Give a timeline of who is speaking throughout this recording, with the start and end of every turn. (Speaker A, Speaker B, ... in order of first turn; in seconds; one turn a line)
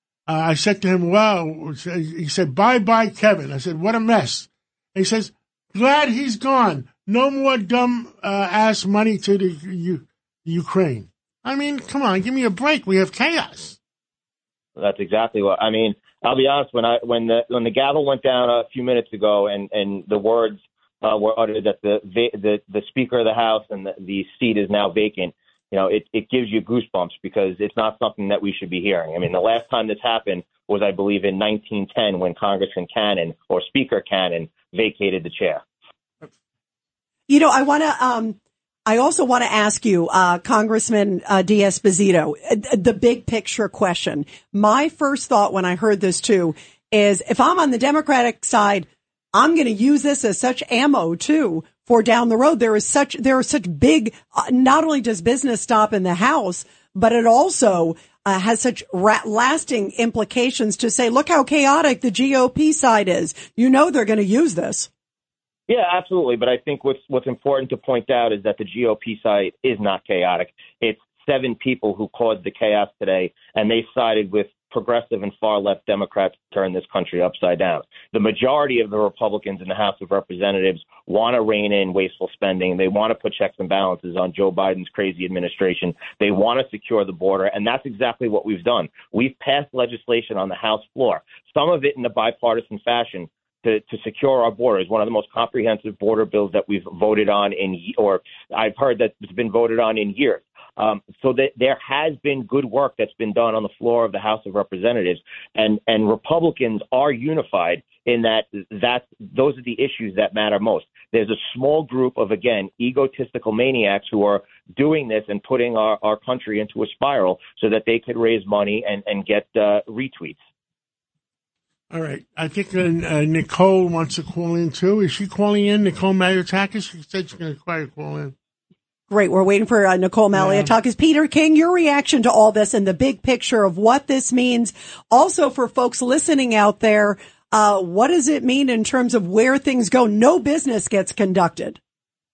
Speaker A: 0.3-13.8
Speaker B: 14.8-35.6
Speaker C: 37.3-38.4
Speaker C: 38.9-64.9
Speaker B: 65.7-120.4
Speaker A: 121.9-128.3
Speaker C: 129.1-141.8
Speaker A: 130.3-130.8